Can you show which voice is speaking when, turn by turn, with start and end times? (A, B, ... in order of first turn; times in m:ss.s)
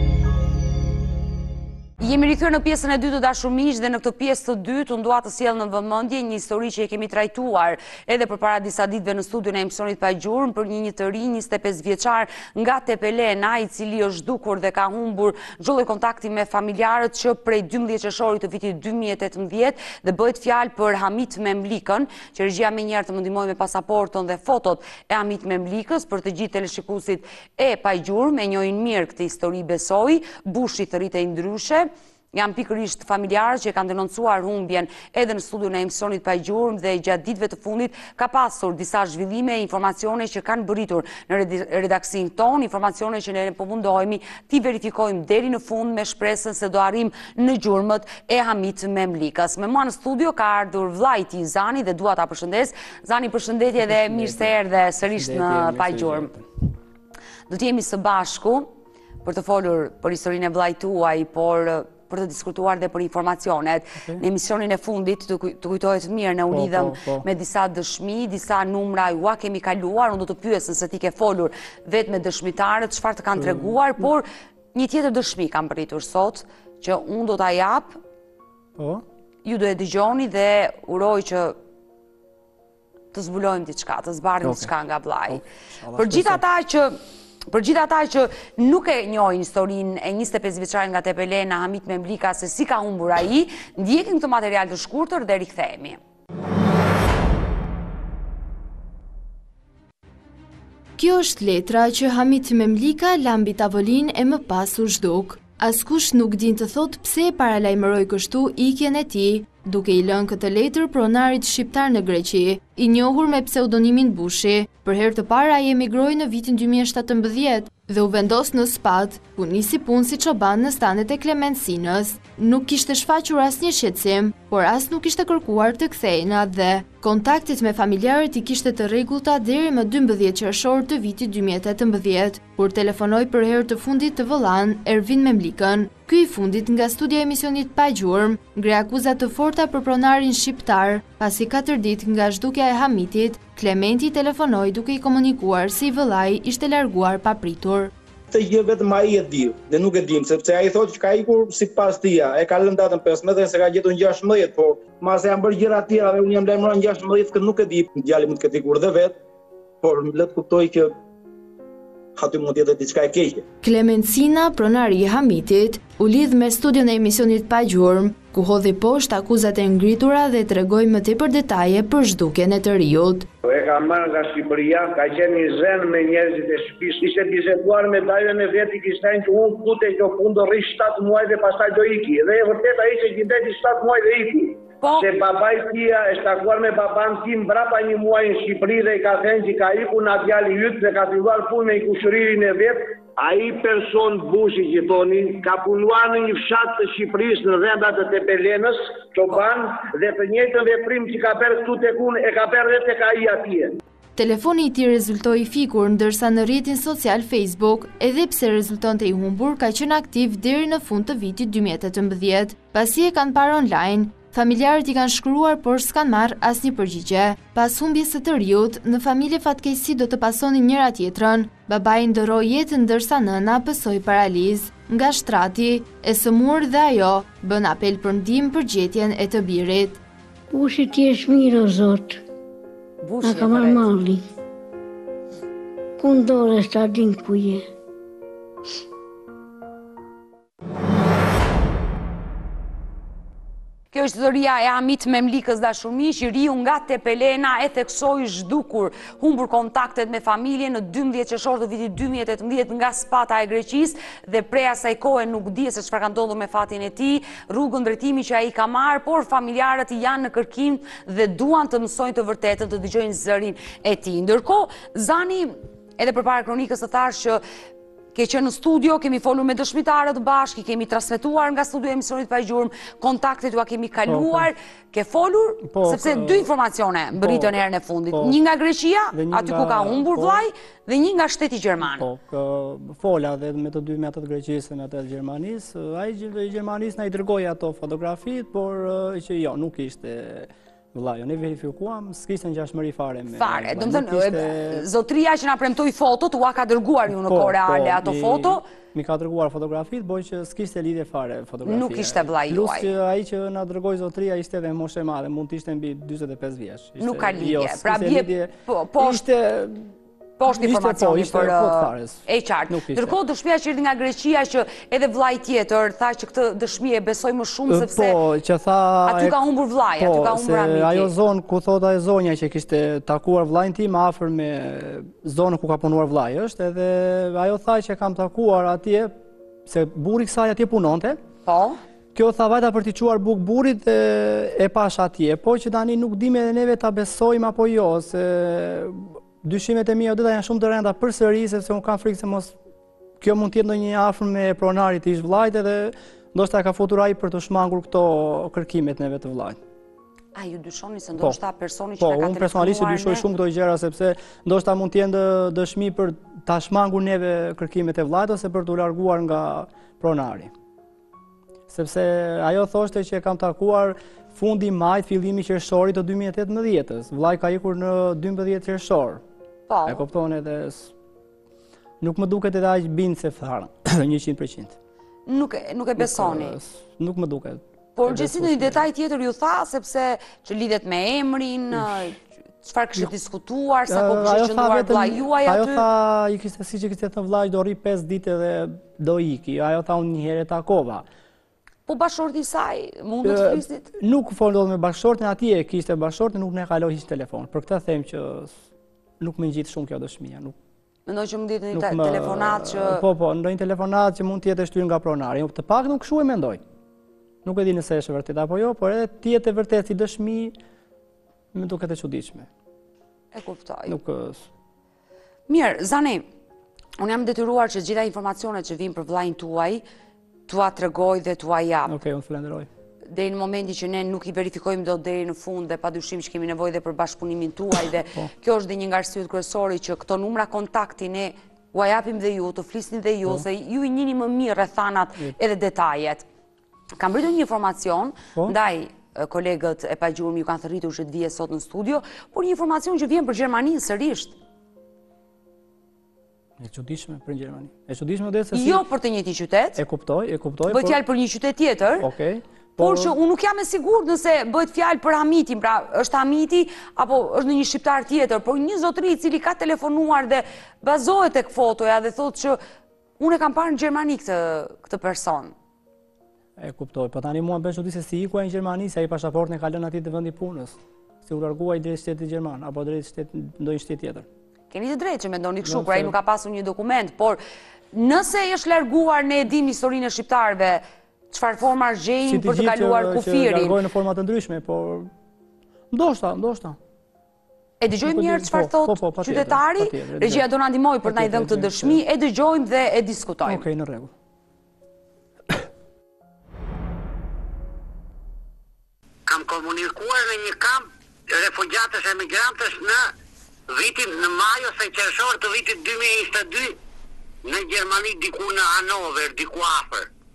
0:02.0-0:56.3 A
0:53.8-0:54.6 B
0:55.1-0:56.5 B
0:57.5-0:58.7 A
0:59.2-1:18.0 A
1:06.5-1:07.2 B
1:13.3-1:14.1 B
1:18.8-1:19.0 B
1:19.4-1:21.6 A
1:23.1-1:25.4 A
1:24.4-1:24.7 B
1:25.3-1:26.4 B
1:26.0-1:26.9 A
1:27.5-1:36.0 A
1:41.0-2:27.9 C
2:28.3-2:39.2 D
2:39.8-2:40.9 D
2:42.2-2:43.4 D
2:43.6-2:53.2 C
2:53.4-3:23.8 E
3:24.2-3:50.0 C
3:50.5-3:52.2 F
3:53.0-3:53.9 A
3:53.2-3:54.2 F
3:56.0-3:57.6 F
4:03.9-4:27.4 A
4:28.1-4:42.0 A
4:34.0-4:34.5 B
4:35.6-4:36.5 B
4:37.1-4:37.6 B
4:38.1-4:38.4 B
4:39.1-4:40.4 B
4:41.8-4:54.9 B
4:53.3-4:58.6 A
4:57.1-5:09.9 B
5:01.6-5:02.9 A
5:07.0-5:09.2 A
5:10.4-5:18.2 A
5:10.5-5:13.2 B
5:17.7-5:19.4 B
5:19.0-5:21.1 A
5:20.0-5:29.1 B
5:29.6-5:31.2 B
5:31.4-5:31.8 A
5:32.1-5:42.5 B
5:43.2-5:49.6 B
5:50.3-5:53.2 A
5:52.0-6:00.5 B
6:01.7-6:09.2 B
6:09.7-6:10.0 A
6:09.8-6:10.9 B
6:12.0-6:14.7 B
6:15.3-6:16.6 A
6:16.0-6:18.8 B
6:18.0-6:25.8 A
6:21.7-6:22.0 B
6:23.9-6:31.0 B
6:31.9-6:33.9 A
6:33.2-6:38.5 B
6:39.2-6:40.5 B
6:41.1-6:43.0 A
6:41.7-6:46.6 B
6:47.4-6:50.5 B
6:51.5-6:52.5 B
6:53.3-6:54.0 A
6:53.8-6:54.4 B
6:55.5-6:56.3 A
6:57.0-6:59.8 A
7:00.5-7:01.9 A
7:01.8-7:02.7 B
7:03.1-7:16.2 A
7:17.0-7:24.3 A
7:26.6-7:28.8 B
7:28.5-7:29.8 A
7:29.8-7:31.0 B
7:30.7-7:32.1 A
7:32.0-7:33.1 B
7:32.8-7:42.6 A
7:43.2-7:45.5 A
7:46.6-7:54.2 B
7:54.7-7:57.4 A
7:55.6-7:56.1 B
7:57.9-8:03.8 A
8:02.2-8:05.1 B
8:05.9-8:06.8 B
8:07.8-8:13.6 A
8:08.0-8:10.4 B
8:11.0-8:12.0 B
8:13.4-8:14.1 B
8:19.3-8:23.1 G
8:23.7-8:26.8 G
8:27.4-8:30.1 G